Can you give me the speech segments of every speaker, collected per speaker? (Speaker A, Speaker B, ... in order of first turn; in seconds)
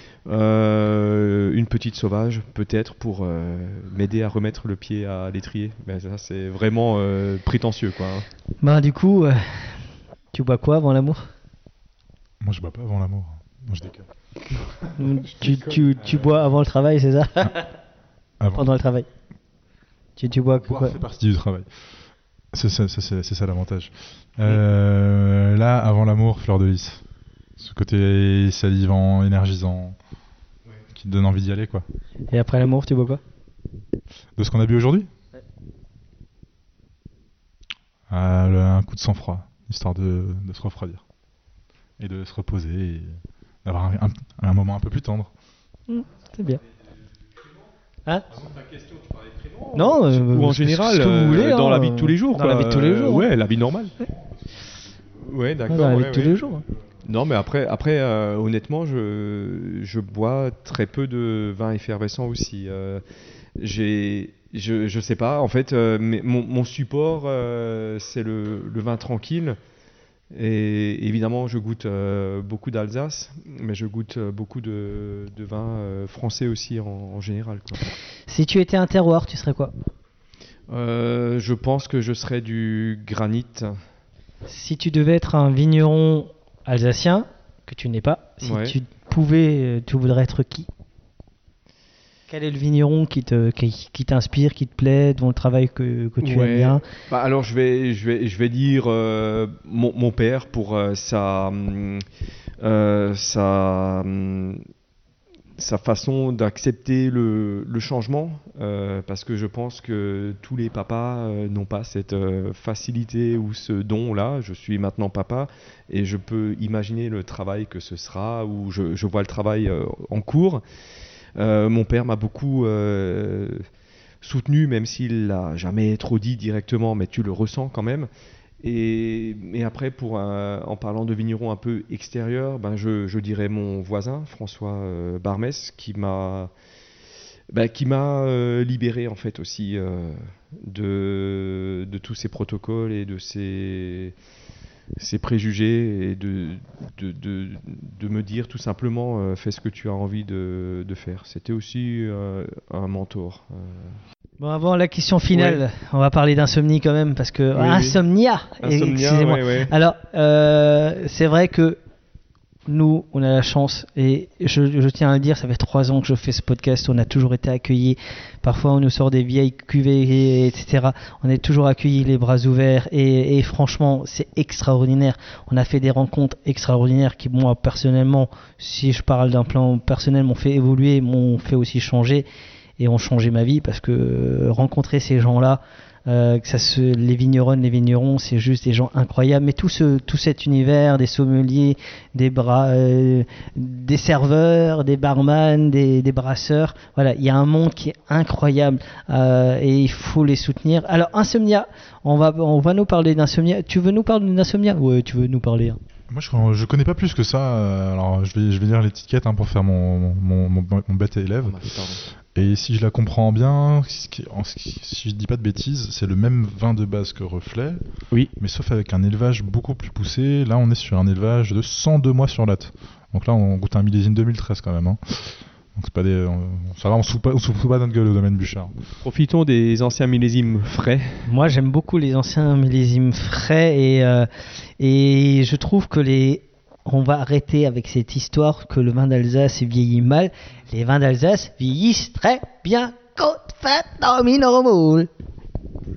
Speaker A: 0.3-8.3, 15.4-16.3, 48.4-53.9, 55.2-56.4, 57.0-63.0, 63.6-69.6, 70.3-77.9, 80.7-83.8, 88.4-88.8, 96.2-102.0, 102.6-104.6, 105.6-120.6, 121.4-123.6, 124.2-128.1, 128.6-136.5, 137.5-144.2, 145.0-154.0, 155.3-155.6, 157.6-158.0, 158.6-159.7, 211.4-212.1, 229.0-231.2
Speaker B: 8.6-9.8, 10.3-11.2, 15.0-17.7, 18.6-19.1, 20.2-21.0, 32.3-33.2, 45.9-46.6, 49.7-53.3, 55.7-56.6, 78.3-79.7, 84.5-90.7, 92.3-96.8, 154.4-161.8, 162.7-182.3, 182.8-205.8, 231.2-234.3, 234.8-245.1
Speaker C: 12.4-14.1, 18.4-18.7, 20.6-21.7, 22.5-27.0, 27.6-29.9, 30.9-31.9, 34.4-35.1, 38.1-41.0, 42.0-45.3, 206.1-217.8, 218.4-228.8